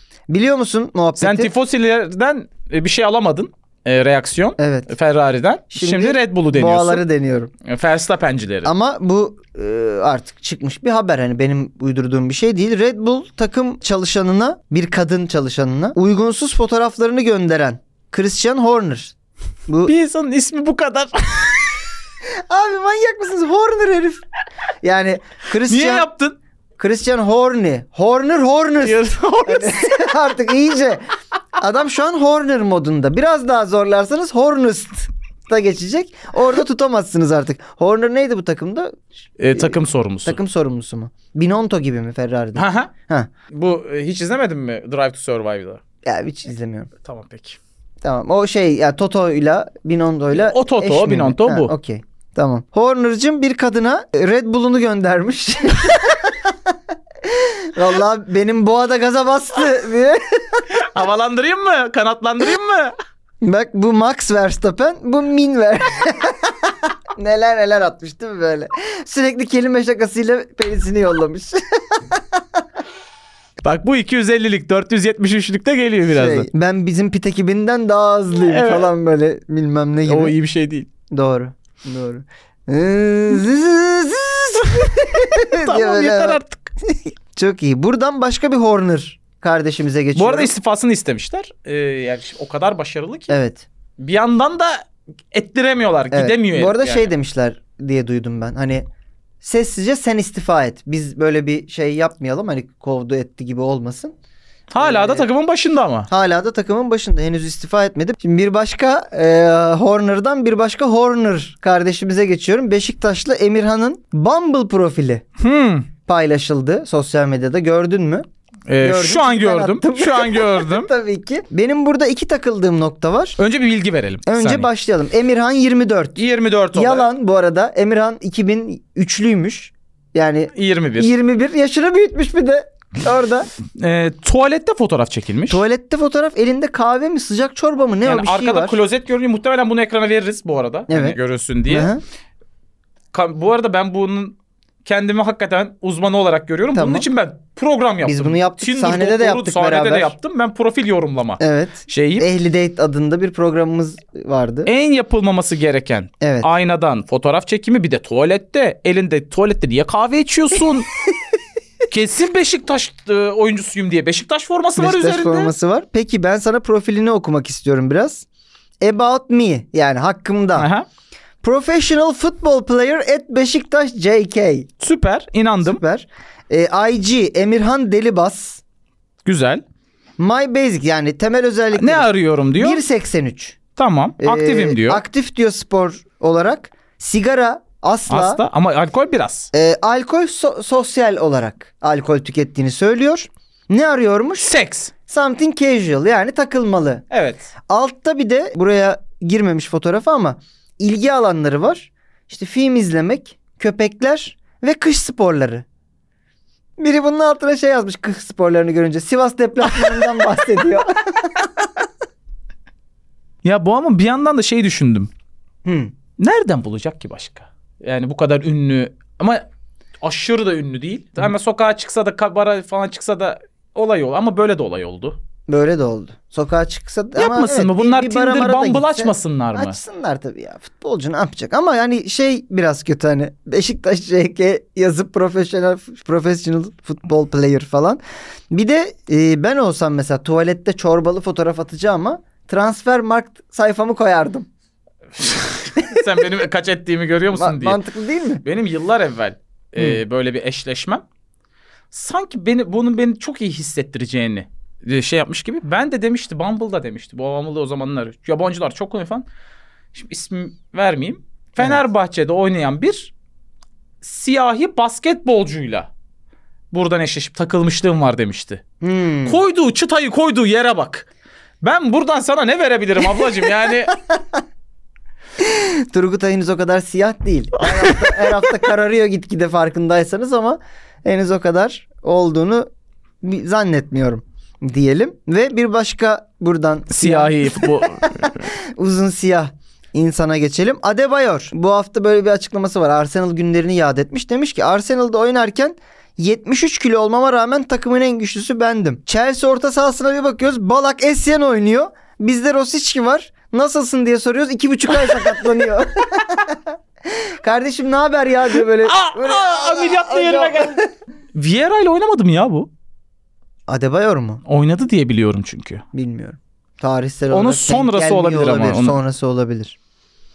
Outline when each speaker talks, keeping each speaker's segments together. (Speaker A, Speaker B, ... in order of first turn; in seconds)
Speaker A: 0.3-1.5, 4.6-4.9, 5.7-7.5, 8.6-19.1, 19.7-19.9, 22.5-24.2, 24.8-26.1, 26.8-31.0, 31.6-39.0, 39.5-43.3, 46.0-46.9, 48.0-60.7, 63.4-72.6, 76.1-80.3, 81.1-90.5, 93.3-93.7, 96.1-98.8, 99.4-104.1, 104.8-105.3, 106.1-115.2, 116.0-118.2, 118.8-123.4, 124.2-126.2, 126.7-133.5, 135.5-138.8, 140.9-142.0, 146.7-147.1, 148.0-150.1, 151.4-154.7, 156.2-156.5, 164.8-168.2, 168.8-170.7, 171.4-174.7, 175.6-178.6, 180.2-183.6, 184.2-188.4, 189.5-194.5, 195.1-197.0, 197.7-205.6, 206.8-211.6, 215.6-215.9, 225.5-244.5, 247.3-248.4, 268.8-269.4, 273.9-274.4, 275.4-282.7, 283.2-310.9, 313.7-314.4, 315.9-319.8
Speaker B: 1.2-7.0, 7.6-8.7, 19.9-21.8, 25.6-26.4, 28.8-29.9, 39.4-40.4, 42.5-42.9, 43.5-45.8, 47.0-47.6, 50.3-51.7, 60.7-62.9, 73.6-76.5, 78.4-78.9, 80.1-80.9, 84.9-86.7, 90.2-93.3, 94.0-97.1, 104.7-106.1, 115.4-115.9, 118.7-120.9, 123.4-124.7, 126.2-127.1, 130.5-131.1, 133.8-135.6, 138.0-141.9, 143.1-152.3, 154.7-160.9, 161.9-165.5, 170.6-170.8, 174.8-175.8, 179.2-179.6, 181.7-182.8, 183.8-185.0, 188.1-189.5, 194.4-194.9, 197.1-197.5, 213.4-215.1, 216.2-219.4, 220.0-225.2, 227.2-229.8, 245.2-247.8, 248.4-251.0, 251.9-259.2, 259.9-263.1, 264.0-265.9, 266.7-268.6, 269.2-271.1, 271.6-273.9, 277.6-278.5, 286.9-288.5, 308.8-312.7, 314.4-315.8, 317.3-319.0